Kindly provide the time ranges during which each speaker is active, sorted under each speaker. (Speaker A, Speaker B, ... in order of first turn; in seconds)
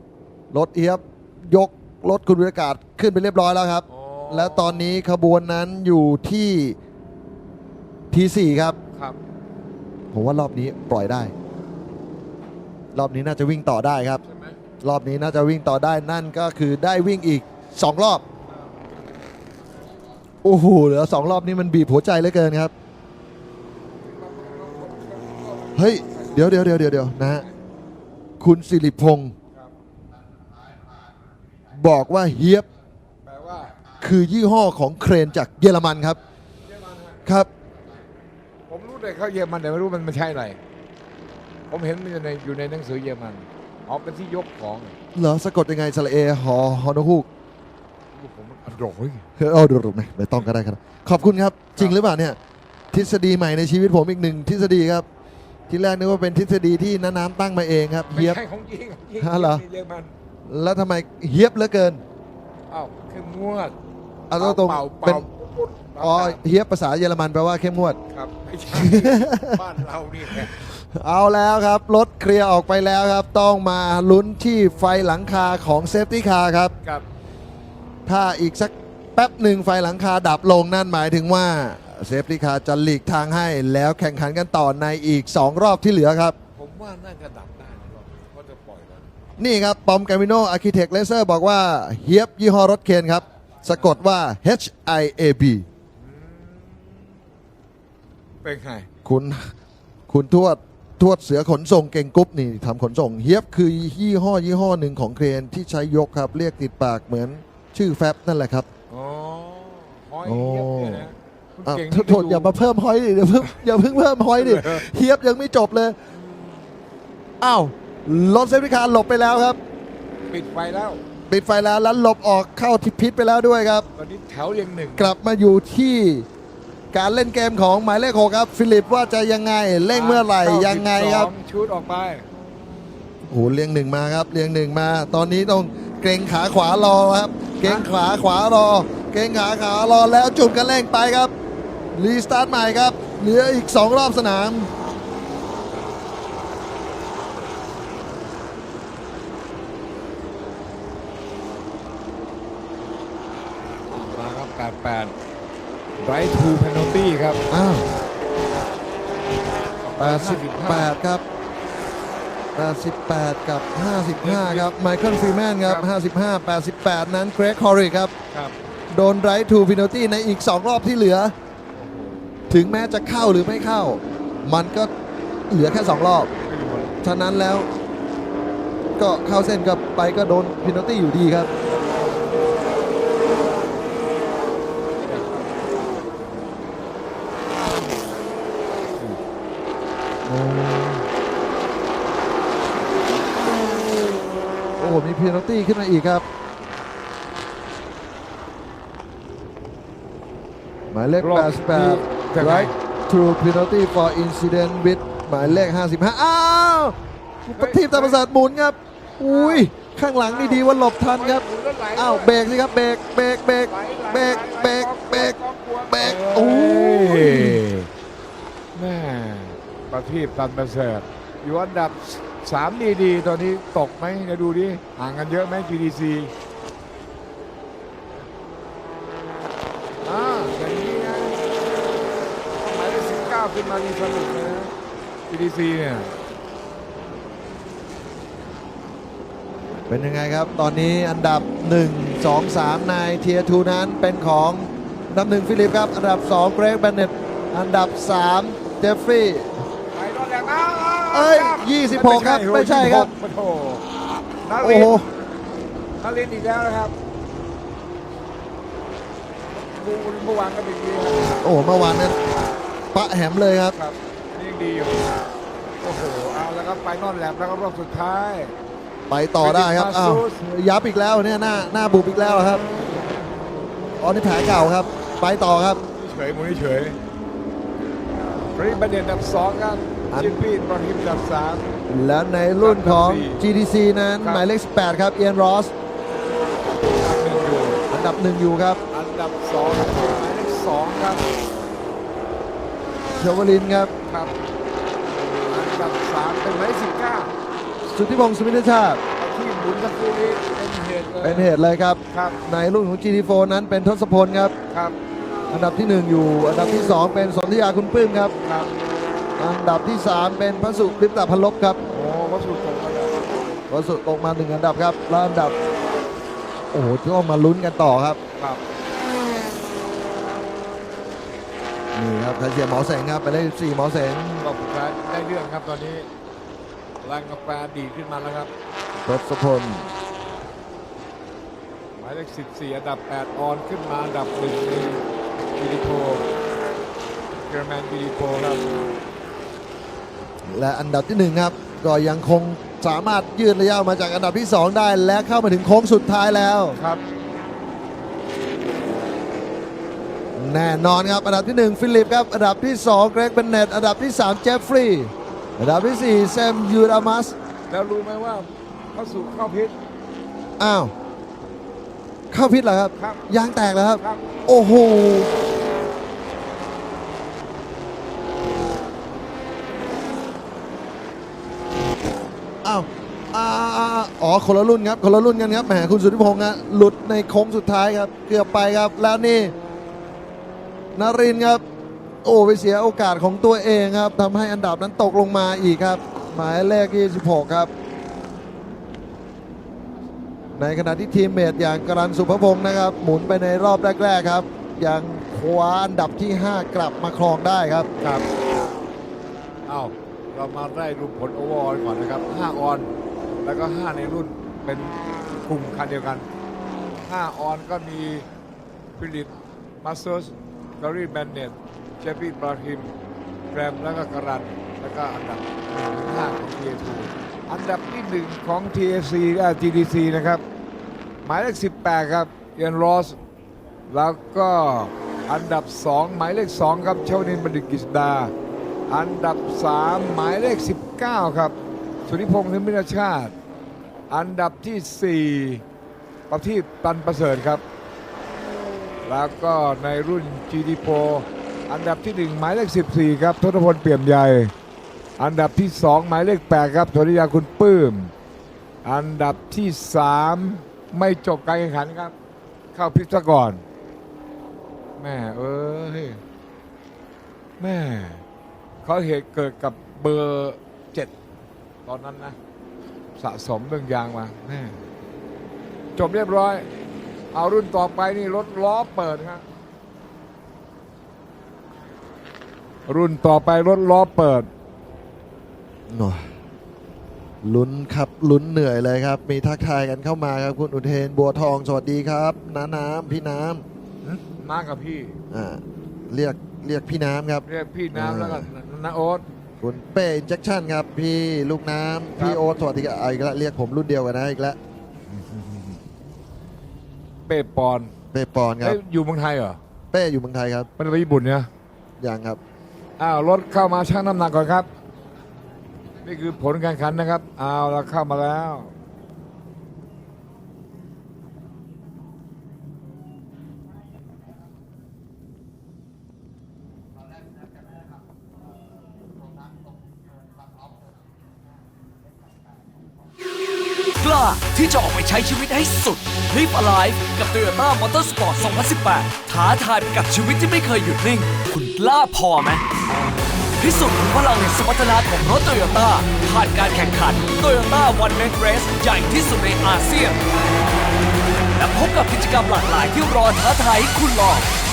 Speaker A: 0.5-6.8, 8.1-8.8, 10.1-11.3, 12.9-14.2, 14.8-18.2, 20.4-22.7, 25.8-27.4, 28.4-29.3, 31.7-32.7, 34.0-36.2, 45.1-47.3, 49.4-52.4, 52.9-55.1, 55.7-58.4, 59.2-59.6, 60.5-62.0, 64.3-65.3, 66.0-68.0, 68.7-69.6, 70.6-76.7, 78.1-86.4, 89.4-95.7, 99.0-99.5, 100.1-108.7, 110.2-111.1, 111.7-116.0, 117.4-119.6, 121.3-123.9, 125.0-126.3, 126.9-131.3, 133.3-141.3, 141.9-144.7, 157.5-157.9, 160.0-161.2, 162.6-168.1, 168.9-171.3, 172.5-174.9, 175.5-176.3, 177.0-177.7, 179.0-181.5, 190.2-191.1, 194.8-196.2, 200.9-211.4, 211.9-215.4, 215.9-217.6, 239.9-249.6, 251.1-253.1, 254.6-255.1, 261.4-262.2, 262.9-263.8, 269.1-272.6, 274.0-275.8, 280.1-280.4, 281.9-285.7, 287.9-288.8, 293.2-293.9, 297.9-299.0, 301.2-304.5, 305.5-308.3, 309.4-311.8, 313.7-315.6, 316.7-318.2, 321.9-324.4, 328.9-329.9, 340.4-346.8, 350.4-357.4, 360.6-360.9, 362.3-365.3, 372.6-379.5, 380.9-381.6, 382.2-387.7, 390.6-397.9, 475.9-476.3, 477.4-483.6, 485.3-488.5, 489.6-494.6, 498.1-498.8, 499.9-500.7, 502.0-502.4
Speaker B: 3.9-5.0, 14.2-14.6, 24.0-27.6, 33.3-33.8, 36.7-37.2, 38.7-40.6, 41.7-45.0, 48.1-49.2, 51.8-52.0, 58.1-60.1, 62.7-63.8, 64.4-66.4, 68.1-70.6, 86.5-89.1, 93.7-94.0, 96.0-97.2, 98.4-98.9, 108.9-112.5, 114.4-114.8, 116.1-116.7, 120.3-121.0, 124.0-125.1, 129.9-132.3, 153.9-155.1, 156.0-157.4, 159.8-160.9, 164.2-164.7, 168.3-168.6, 171.8-172.4, 176.4-176.9, 181.7-182.4, 185.0-185.8, 201.2-202.7, 207.5-208.2, 209.3-209.7, 210.3-212.4, 213.7-217.9, 218.8-226.3, 230.0-231.4, 232.6-234.7, 235.3-236.1, 249.9-253.8, 254.4-255.0, 256.0-256.9, 259.5-261.4, 263.7-265.1, 265.8-268.6, 269.4-270.4, 275.9-277.0, 278.6-281.7, 282.6-283.5, 284.2-284.5, 286.9-287.9, 288.9-291.3, 294.1-294.3, 295.5-297.3, 299.2-301.5, 302.1-302.4, 304.7-305.0, 308.4-308.7, 311.9-313.2, 324.4-326.1, 327.0-328.5, 332.0-335.1, 335.6-336.3, 337.4-338.6, 346.8-347.0, 357.7-359.8, 363.0-363.3, 364.0-364.2, 398.0-398.3, 399.7-402.9, 403.4-406.3, 407.1-408.3, 409.0-412.9, 413.5-420.4, 421.2-423.2, 423.9-428.3, 428.9-431.6, 432.1-433.3, 434.1-435.6, 436.3-437.6, 439.1-444.5, 445.2-448.1, 448.8-452.1, 452.7-453.6, 455.0-456.2, 457.6-458.2, 458.8-461.1, 461.9-462.4, 463.2-464.8, 466.0-466.7, 467.3-469.4, 472.9-474.5, 484.0-485.2, 487.5-489.2, 492.2-492.4, 497.3-497.9, 498.6-499.6, 500.8-501.5, 503.0-504.7, 506.0-508.7
Speaker C: 524.0-532.6, 533.6-540.2, 541.6-544.5